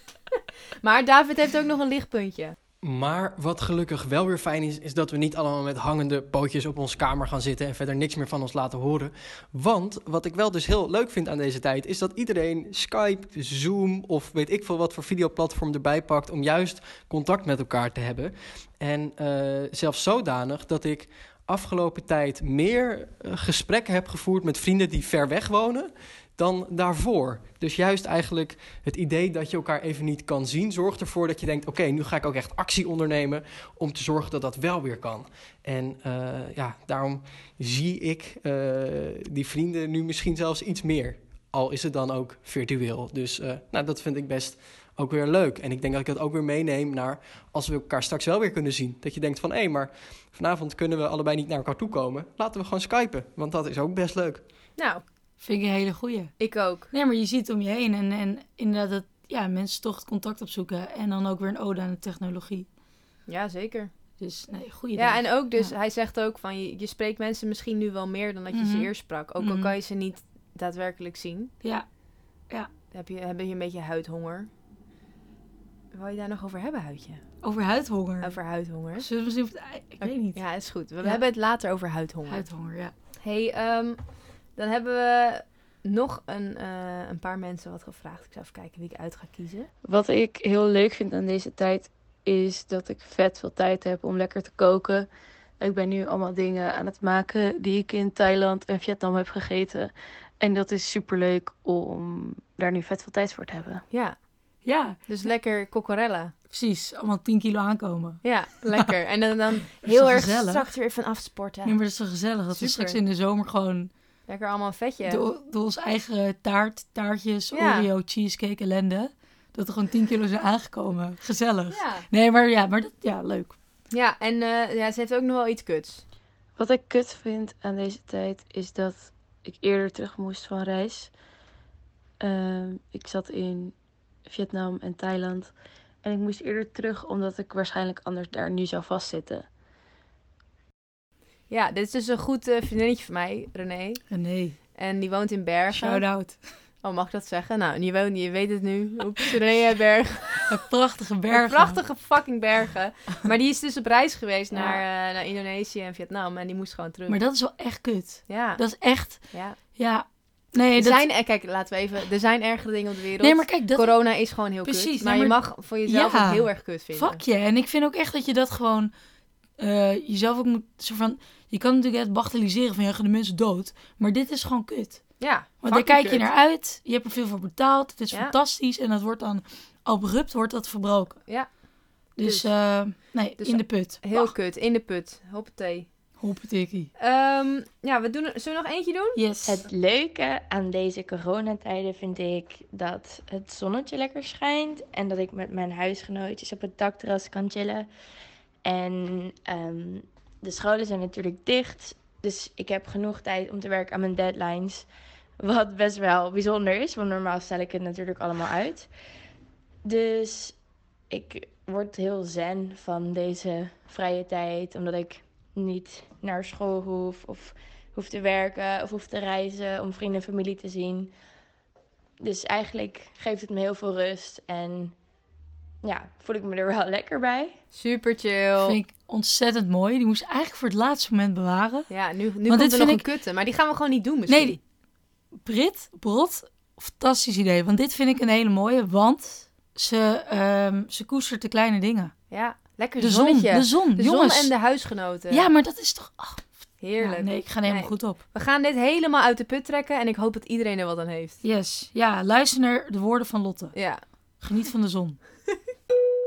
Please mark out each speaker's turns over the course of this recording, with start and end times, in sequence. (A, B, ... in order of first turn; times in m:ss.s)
0:00.8-0:02.6 A
0:02.8-0:54.4 B
0:54.8-0:55.0 A
0:55.4-0:56.4 C
0:56.4-0:56.9 A
0:56.9-1:02.7 C
1:03.3-1:03.9 A
1:04.2-1:05.7 C
1:05.0-1:11.5 A
1:08.5-1:09.7 C
1:12.9-1:14.5 A
1:15.9-1:17.2 A
1:17.4-1:18.4 C
1:18.2-1:19.1 A
1:19.0-1:20.4 C
1:20.0-1:22.5 A
1:22.3-1:22.9 C
1:23.2-1:24.0 A
1:24.5-1:29.7 A
1:29.8-1:35.1 D
1:35.6-1:43.8 D
1:43.9-1:44.2 A
1:44.6-1:45.0 C
1:45.1-1:46.3 A
1:46.5-1:48.2 C
1:48.2-1:51.8 A
1:49.8-1:50.6 C
1:51.6-1:53.9 C
1:52.5-1:53.0 A
1:54.3-1:55.2 A
1:55.1-2:03.6 C
1:57.5-1:57.9 A
2:01.7-2:02.0 A
2:03.9-2:06.0 A
2:06.6-2:11.1 D
2:12.2-2:13.7 D
2:14.2-2:15.5 D
2:16.0-2:19.5 D
2:21.5-2:24.0 A
2:24.1-2:24.6 C
2:24.7-2:26.0 A
2:25.7-2:26.4 C
2:26.8-2:30.5 A
2:30.5-2:31.8 C
2:31.3-2:37.2 A
2:34.5-2:34.8 C
2:37.1-2:39.2 C
2:38.3-2:38.6 A
2:39.3-2:39.6 A
2:39.7-2:41.0 C
2:40.7-2:47.2 A
2:43.2-2:44.0 C
2:44.6-2:48.9 C
2:49.6-2:55.0 C
2:55.2-2:56.3 A
2:55.6-3:01.2 C
3:02.2-3:04.3 C
3:02.2-3:02.5 A
3:03.4-3:05.9 A
3:06.2-3:06.9 C
3:07.0-3:09.2 A
3:09.2-3:09.6 C
3:09.4-3:17.8 E
3:18.6-3:24.9 E
3:25.4-3:28.9 E
3:29.8-3:30.5 E
3:31.1-3:41.1 E
3:42.2-3:44.9 E
3:45.8-3:47.6 E
3:47.7-3:48.8 A
3:48.6-3:51.9 C
3:51.9-3:54.6 A
3:52.5-3:53.0 C
3:54.3-3:54.6 C
3:55.4-4:02.1 C
4:02.3-4:05.4 A
4:03.0-4:04.5 C
4:05.3-4:08.2 C
4:06.8-4:11.4 A
4:11.4-4:13.7 C
4:13.7-4:14.0 A
4:14.4-4:15.2 C